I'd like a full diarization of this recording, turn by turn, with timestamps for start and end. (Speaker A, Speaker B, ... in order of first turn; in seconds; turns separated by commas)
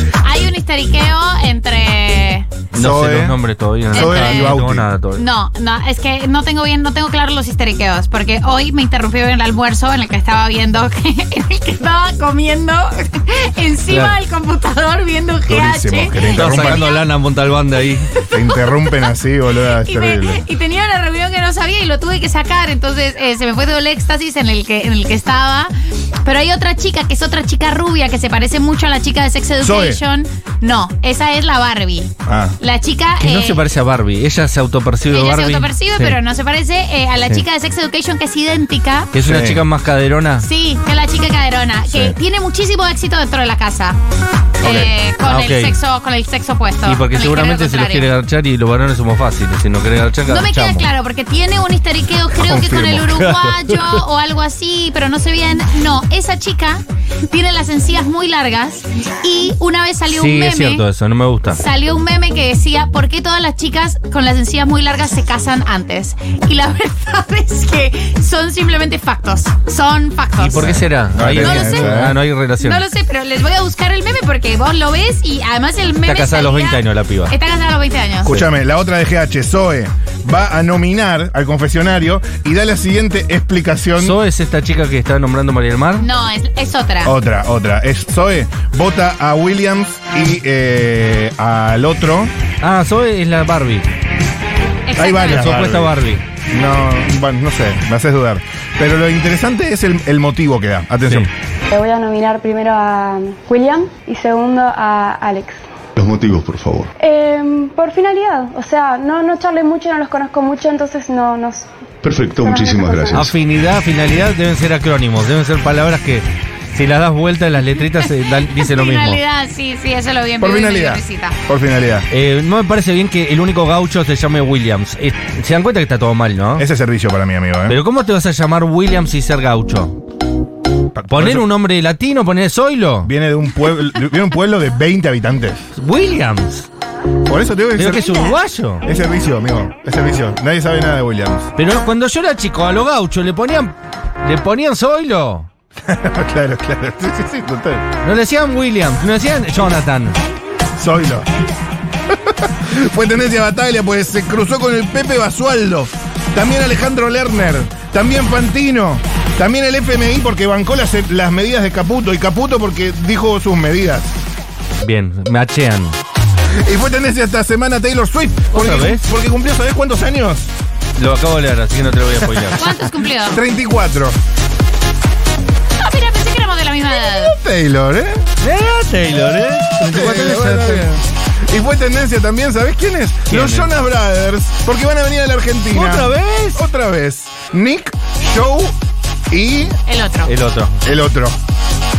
Speaker A: 0.2-2.5, Speaker B: 2.7-5.2, Speaker C: 2.7-3.4, Speaker C: 3.9-4.9, Speaker A: 3.9-4.5, Speaker A: 5.2-17.0, Speaker B: 13.9-14.2, Speaker C: 15.5-16.8, Speaker B: 16.3-18.1, Speaker C: 18.3-20.4, Speaker A: 19.8-25.7, Speaker A: 26.2-33.6, Speaker C: 29.6-30.0, Speaker C: 32.3-32.6, Speaker B: 33.2-36.2, Speaker A: 35.1-39.1, Speaker B: 39.1-40.5, Speaker C: 39.2-39.6, Speaker A: 40.4-44.0, Speaker A: 44.6-48.1, Speaker B: 44.6-45.8, Speaker B: 46.9-50.9, Speaker A: 50.3-60.8, Speaker C: 52.4-53.3, Speaker B: 52.9-53.8, Speaker B: 60.1-61.6, Speaker A: 61.5-71.9, Speaker B: 70.4-72.8, Speaker C: 70.7-72.2, Speaker A: 72.6-78.4, Speaker B: 76.0-77.3, Speaker C: 78.2-84.2, Speaker B: 84.0-86.0, Speaker A: 86.0-87.1, Speaker C: 87.0-92.3, Speaker B: 92.6-93.9, Speaker A: 94.9-95.5, Speaker C: 95.0-95.9, Speaker B: 95.1-96.2, Speaker C: 96.5-101.3, Speaker D: 101.7-105.6, Speaker E: 106.0-106.9, Speaker D: 107.0-111.7, Speaker E: 112.0-113.3, Speaker D: 112.3-113.3, Speaker B: 113.1-119.2, Speaker A: 118.5-121.4, Speaker C: 120.4-122.1, Speaker B: 122.1-126.7, Speaker C: 126.6-127.8, Speaker B: 127.7-130.0, Speaker C: 130.9-131.4, Speaker B: 131.1-133.1, Speaker C: 133.0-135.6, Speaker B: 135.8-136.7, Speaker C: 137.3-138.3, Speaker B: 137.7-138.8, Speaker C: 138.8-141.5, Speaker B: 141.6-145.5, Speaker C: 145.8-147.9, Speaker B: 148.0-150.2, Speaker C: 150.8-151.3, Speaker C: 152.1-164.1, Speaker B: 164.8-166.0, Speaker C: 166.6-170.5, Speaker B: 168.5-169.0, Speaker B: 171.0-172.7, Speaker C: 172.3-172.6, Speaker A: 172.6-173.4, Speaker C: 173.2-174.2, Speaker A: 175.8-177.3, Speaker C: 177.0-178.3, Speaker B: 178.4-181.0, Speaker C: 179.8-188.7, Speaker B: 183.3-183.7, Speaker B: 185.7-186.6, Speaker C: 189.3-189.7, Speaker A: 189.9-190.3, Speaker B: 190.3-190.8, Speaker C: 190.8-191.4